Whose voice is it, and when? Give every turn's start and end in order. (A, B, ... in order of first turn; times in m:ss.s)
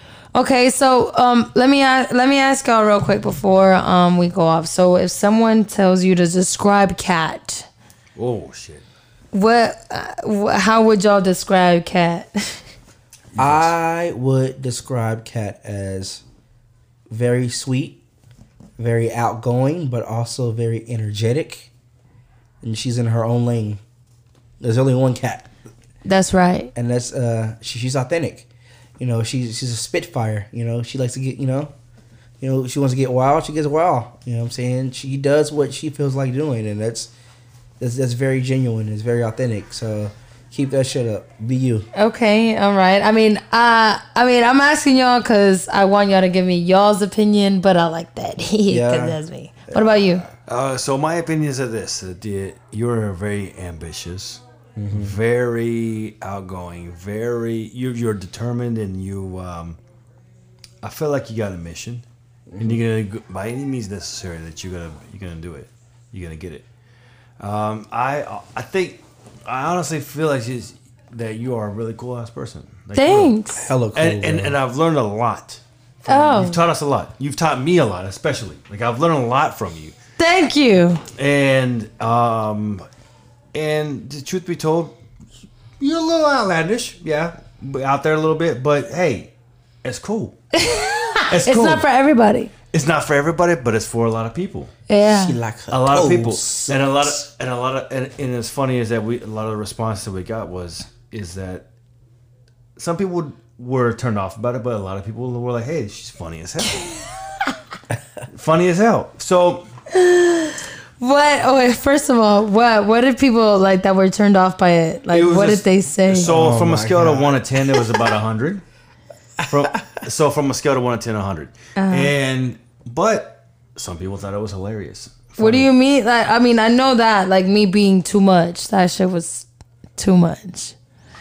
0:00.3-0:07.7 A
0:08.2-0:08.8 B
0:09.3-0:12.6 A
0:13.3-0:13.7 B
0:13.4-0:16.2 C
0:17.1-0:18.0 C
0:18.8-0:21.7 C
0:22.6-0:23.8 C
0:24.6-0:25.5 C
0:26.0-0:26.7 A
0:26.8-0:28.5 C
0:29.0-0:31.7 C
0:32.4-0:37.1 C
0:37.8-0:41.9 C
0:42.0-0:50.2 A
0:48.7-0:50.3 C
0:50.5-0:59.8 B
0:54.8-0:55.1 C
1:00.8-1:02.0 B
1:02.5-1:02.8 C
1:02.6-1:06.7 B
1:07.4-1:13.4 B
1:13.0-1:13.7 A
1:13.6-1:14.6 C
1:13.9-1:20.0 B
1:16.1-1:16.6 A
1:20.2-1:21.0 A
1:21.1-1:22.9 B
1:23.5-1:25.0 B
1:25.8-1:29.3 B
1:29.8-1:30.4 B
1:30.5-1:32.5 A
1:31.3-1:31.8 B
1:32.7-1:34.7 B
1:34.9-1:35.4 A
1:35.0-1:37.1 C
1:35.7-1:41.7 B
1:42.8-1:46.9 B
1:48.3-1:49.7 B
1:49.9-1:56.3 A
1:55.1-1:58.6 B
1:56.2-1:57.4 C
1:59.4-2:05.7 B
2:01.8-2:02.1 A
2:05.4-2:09.5 A
2:10.0-2:10.8 A